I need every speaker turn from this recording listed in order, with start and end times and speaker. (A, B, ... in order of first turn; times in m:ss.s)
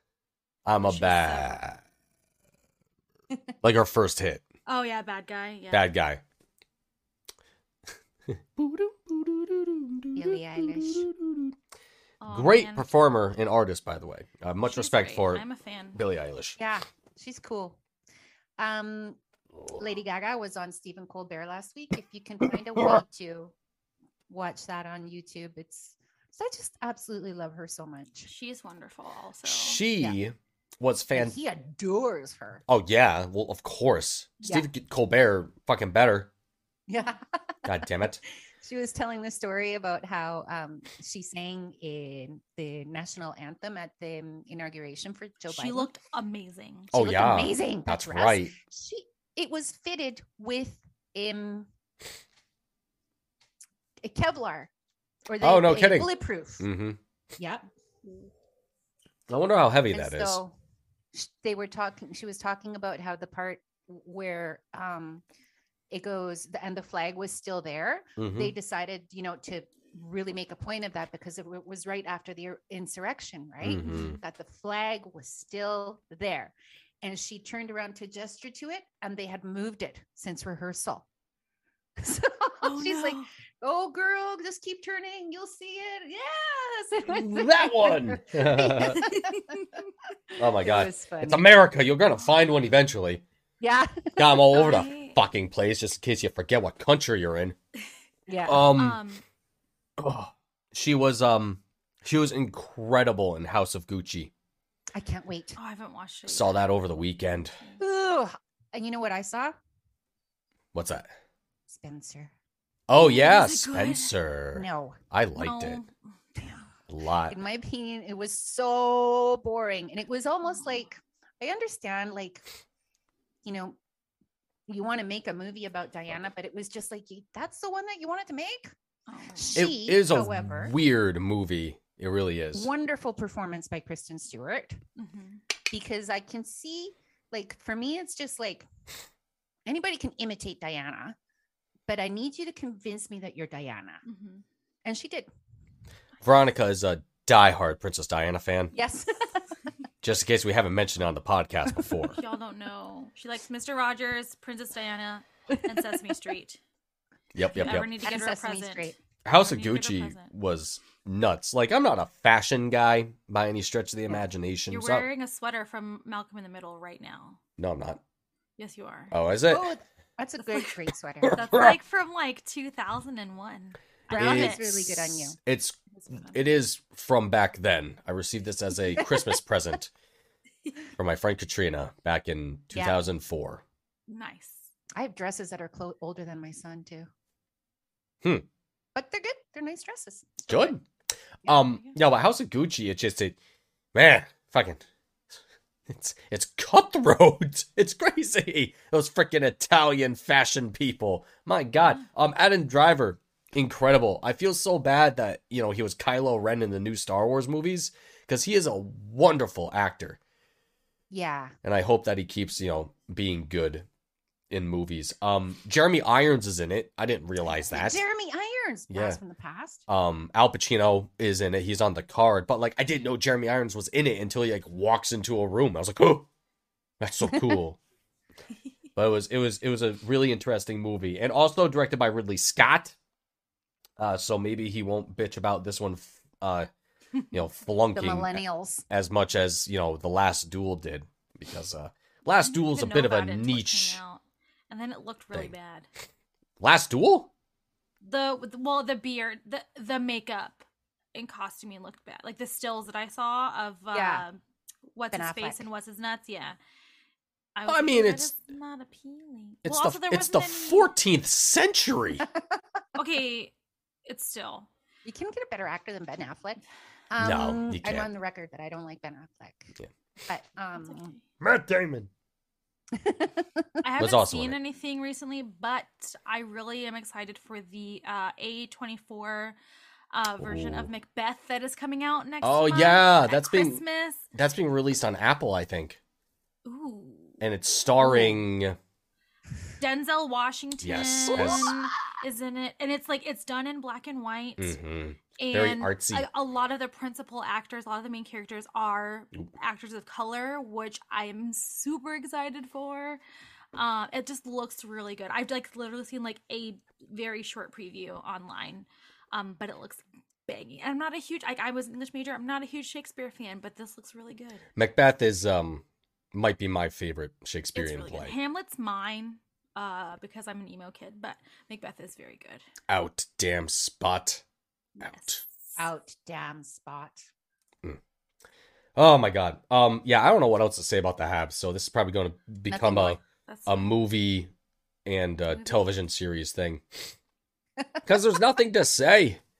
0:00.6-0:01.8 A
0:00.8-0:01.6 B
0:03.6-0:04.4 A
0:04.7-0:05.9 B
0:05.7-0:06.2 A
0:08.3-0:11.5 A
0:10.2-0:11.1 C
0:12.2-0:12.9 B
0:12.3-0:15.4 A
0:14.6-0:16.0 B
0:15.9-0:16.6 A
0:16.6-0:17.8 C
0:18.6-0:19.2 C
0:19.8-0:23.5 C
0:24.3-0:28.3 C
0:28.2-0:29.8 B
0:29.4-0:31.4 A
0:31.1-0:32.6 C
0:32.7-0:36.3 A
0:36.9-0:37.2 C
0:37.6-0:38.2 A
0:38.6-0:45.9 C
0:45.5-0:46.9 B
0:46.9-0:48.5 A
0:46.9-0:51.7 C
0:54.0-0:54.7 C
0:55.3-0:56.6 C
0:55.4-0:57.0 A
0:57.4-0:57.6 C
0:59.3-1:00.4 A
0:59.9-1:00.5 C
1:01.1-1:05.2 C
1:05.9-1:21.0 C
1:08.2-1:08.5 A
1:13.6-1:14.2 A
1:13.8-1:14.2 B
1:22.0-1:29.6 C
1:22.6-1:23.3 B
1:27.0-1:29.0 A
1:30.3-1:31.4 C
1:30.4-1:33.2 A
1:33.6-1:34.6 C
1:34.2-1:37.6 A
1:34.5-1:35.2 B
1:38.3-1:38.7 C
1:38.4-1:39.2 B
1:38.5-1:39.0 A
1:40.0-1:44.3 A
1:44.9-1:45.6 C
1:45.6-1:46.7 B
1:46.3-1:47.6 A
1:47.8-1:49.5 C
1:50.7-1:51.1 A
1:51.7-1:52.3 C
1:52.9-1:55.8 A
1:52.9-1:54.2 B
1:54.5-1:55.0 C
1:55.4-1:56.6 B
1:56.9-1:57.4 A
1:57.3-2:02.4 C
2:03.4-2:03.8 C
2:04.7-2:08.7 C
2:09.1-2:09.7 B
2:09.3-2:10.7 C
2:09.5-2:12.7 A
2:12.5-2:14.8 C
2:15.0-2:15.4 B
2:15.7-2:18.7 C
2:19.6-2:21.2 C
2:21.9-2:24.0 C
2:24.0-2:24.4 B
2:24.8-2:25.3 C
2:26.2-2:28.7 A
2:28.7-2:29.4 C
2:30.0-2:32.2 A
2:32.2-2:36.6 B
2:37.3-2:37.9 A
2:37.5-2:40.3 B
2:37.6-2:39.0 C
2:39.2-2:45.1 A
2:44.7-2:47.4 B
2:47.6-2:48.0 A
2:48.6-2:49.1 B
2:49.1-2:49.7 A
2:49.5-2:51.4 C
2:51.2-2:51.8 A
2:51.4-2:55.0 B
2:54.1-2:55.4 C
2:54.1-2:59.9 A
2:56.0-2:56.4 B
3:01.0-3:03.6 A
3:02.7-3:03.0 C
3:04.1-3:04.7 B
3:04.9-3:07.1 C
3:08.9-3:10.7 C
3:10.5-3:10.8 A
3:11.4-3:13.4 A
3:11.5-3:12.0 B
3:13.9-3:14.8 A
3:15.9-3:30.2 A
3:31.1-3:31.5 C
3:31.6-3:33.8 A
3:34.5-3:38.0 A
3:37.7-3:39.8 C
3:38.9-3:39.2 A
3:39.9-3:46.3 A
3:47.0-3:47.8 A
3:49.0-3:52.9 A
3:54.0-3:56.7 A
3:57.3-4:04.0 A
3:57.9-3:58.8 C
4:02.4-4:05.9 B
4:06.6-4:07.3 A
4:08.0-4:14.4 B
4:13.9-4:14.2 C
4:14.9-4:16.6 B
4:15.1-4:15.7 C
4:17.6-4:20.9 B
4:17.7-4:18.3 A
4:19.6-4:22.2 A
4:23.0-4:23.5 B
4:24.0-4:24.7 B
4:25.0-4:31.1 C
4:27.2-4:28.1 A
4:30.8-4:31.2 B
4:31.4-4:32.1 A
4:32.9-4:33.7 C
4:33.8-4:39.6 B
4:34.0-4:34.6 A
4:40.1-4:44.3 B
4:40.4-4:40.9 A
4:42.4-4:43.8 A
4:44.3-4:46.0 A
4:46.6-4:47.4 B
4:47.4-4:48.8 A
4:49.8-4:54.8 B
4:50.8-4:51.7 A
4:54.6-4:56.2 A
4:55.4-5:03.2 B
5:03.7-5:14.6 B
5:14.8-5:18.3 A
5:17.7-5:22.6 B
5:22.9-5:24.4 A
5:25.0-5:25.8 B
5:25.0-5:25.4 A
5:25.8-5:27.3 C
5:29.0-5:34.5 A
5:32.7-5:33.2 C
5:33.4-5:33.9 B
5:35.0-5:37.1 A
5:35.5-5:35.8 B
5:38.0-5:39.4 A